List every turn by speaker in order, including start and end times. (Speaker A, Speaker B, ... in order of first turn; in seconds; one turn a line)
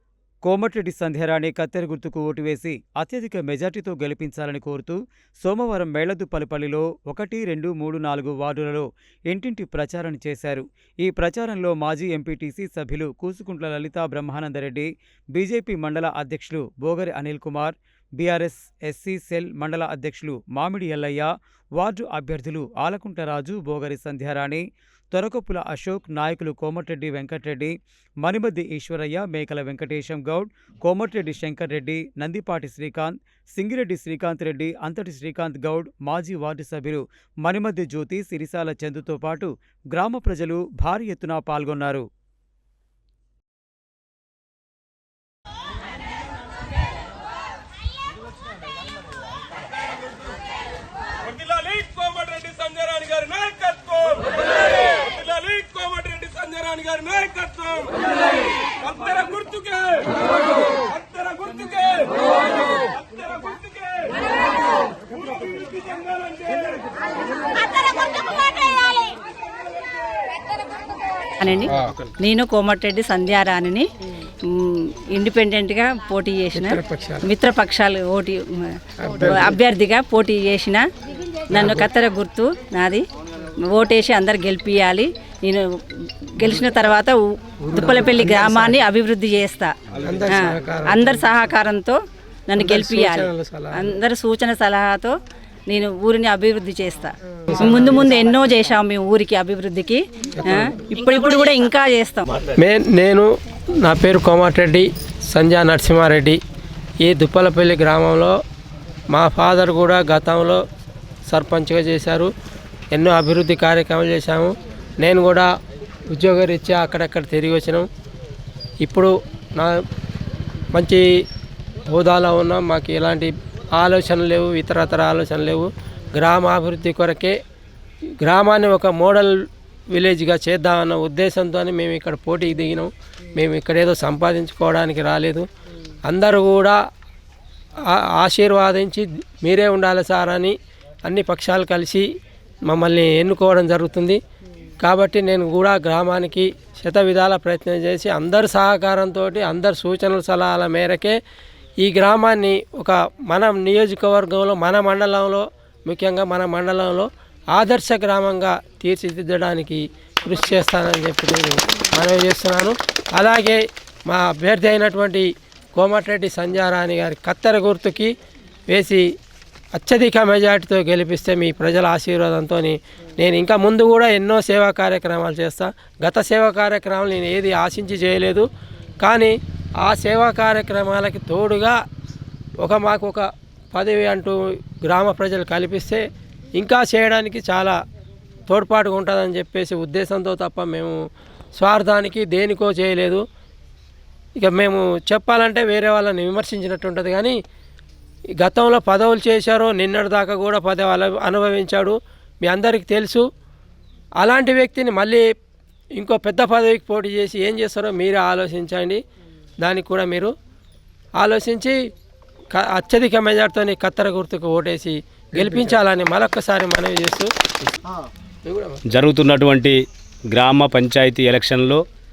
Speaker A: 0.4-42.0
Speaker B: 51.4-54.3
Speaker B: 55.0-57.9
Speaker B: 58.9-60.0
Speaker B: 61.1-62.1
Speaker C: 71.4-73.8
Speaker C: 74.5-78.4
Speaker D: 76.5-77.2
Speaker D: 79.0-79.5
Speaker C: 79.2-80.8
Speaker C: 81.5-83.0
Speaker D: 81.5-81.9
Speaker C: 83.7-87.2
Speaker C: 87.7-89.7
Speaker D: 87.7-88.7
Speaker D: 90.0-91.2
Speaker C: 90.3-92.0
Speaker C: 92.5-95.1
Speaker D: 92.6-93.8
Speaker C: 95.7-102.3
Speaker D: 102.6-103.3
Speaker D: 103.8-106.4
Speaker D: 107.0-108.3
Speaker D: 109.1-110.6
Speaker D: 111.3-112.3
Speaker D: 112.9-115.5
Speaker D: 116.1-117.8
Speaker D: 118.8-119.8
Speaker D: 120.7-121.0
Speaker D: 121.9-127.3
Speaker D: 128.2-129.3
Speaker D: 129.9-135.4
Speaker D: 136.1-136.8
Speaker D: 138.2-140.5
Speaker D: 141.1-142.1
Speaker D: 142.7-144.2
Speaker D: 144.8-151.1
Speaker D: 151.8-168.1
Speaker D: 168.7-169.0
Speaker D: 169.8-178.4
Speaker D: 179.0-181.8
Speaker D: 182.6-184.3
Speaker D: 184.8-186.0
Speaker D: 186.6-187.8
Speaker D: 188.5-191.0
Speaker D: 191.6-193.2
Speaker D: 194.4-197.3
Speaker D: 198.4-203.2
Speaker D: 204.2-205.2
Speaker D: 206.0-209.0
Speaker D: 209.6-210.3
Speaker D: 211.2-211.7
Speaker D: 212.5-217.3
Speaker D: 218.4-218.8
Speaker E: 218.9-219.8
Speaker E: 220.3-221.8